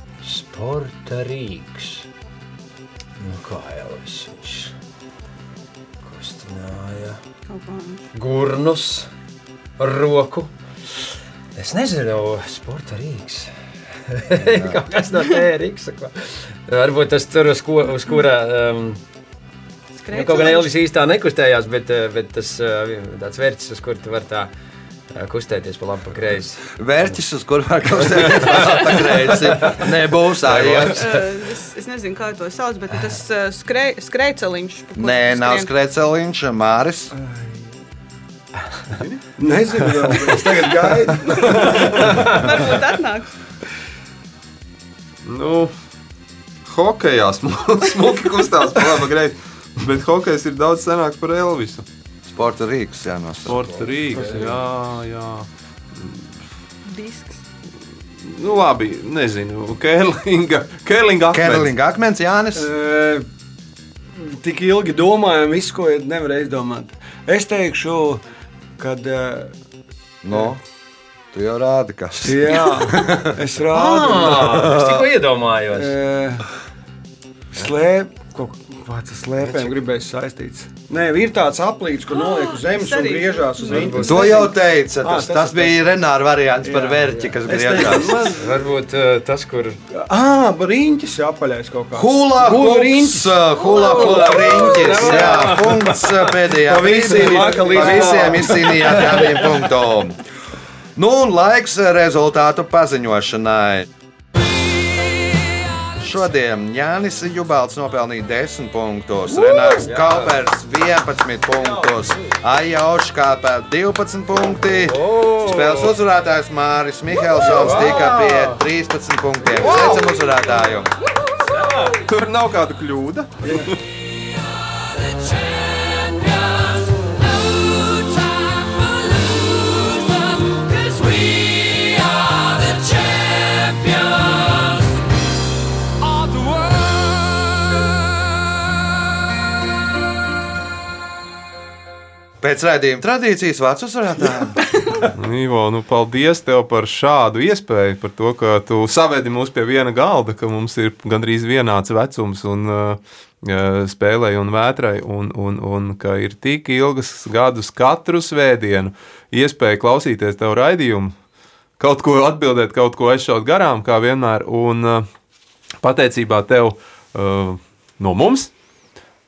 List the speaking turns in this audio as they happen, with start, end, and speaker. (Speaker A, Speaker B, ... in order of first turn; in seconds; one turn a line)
Speaker A: 0.2-2.1
Speaker A: 3.2-4.7
Speaker A: 6.0-7.2
Speaker B: 7.5-8.0
Speaker A: 8.1-9.1
Speaker A: 9.8-10.5
Speaker A: 11.6-13.5
Speaker A: 14.1-19.0
Speaker C: 14.5-14.8
Speaker B: 20.0-20.7
Speaker A: 20.1-24.5
Speaker A: 25.1-26.7
Speaker C: 26.7-31.0
Speaker A: 29.6-31.3
Speaker B: 30.9-35.7
Speaker C: 35.0-37.1
Speaker D: 37.1-37.7
Speaker D: 39.4-42.6
Speaker B: 41.2-43.3
Speaker E: 45.2-45.7
Speaker E: 46.7-51.8
Speaker C: 52.3-53.6
Speaker E: 53.5-56.4
Speaker A: 53.5-54.5
Speaker D: 54.1-54.5
Speaker B: 56.9-57.4
Speaker E: 58.2-61.7
Speaker C: 61.3-62.7
Speaker D: 62.5-63.3
Speaker D: 64.2-68.2
Speaker D: 68.8-69.5
Speaker C: 70.2-70.6
Speaker C: 71.3-73.4
Speaker D: 72.2-74.8
Speaker A: 73.7-76.0
Speaker D: 75.7-76.5
Speaker D: 77.5-84.5
Speaker A: 79.5-79.7
Speaker B: 82.1-84.5
Speaker A: 83.6-84.4
Speaker C: 84.0-88.2
Speaker D: 85.0-85.9
Speaker D: 86.6-88.7
Speaker A: 88.1-89.8
Speaker D: 89.9-95.6
Speaker C: 92.0-100.2
Speaker A: 93.6-96.3
Speaker B: 93.7-94.4
Speaker D: 96.5-99.3
Speaker A: 97.3-98.5
Speaker C: 101.0-103.9
Speaker C: 106.0-120.9
Speaker A: 109.3-110.4
Speaker A: 111.5-112.3
Speaker A: 114.7-116.0
Speaker A: 117.4-118.6
Speaker A: 119.6-120.0
Speaker A: 121.4-122.0
Speaker E: 121.9-123.8
Speaker A: 131.4-131.9
Speaker C: 142.4-144.7
Speaker E: 145.1-161.1
Speaker E: 161.8-165.1
Speaker E: 165.8-168.5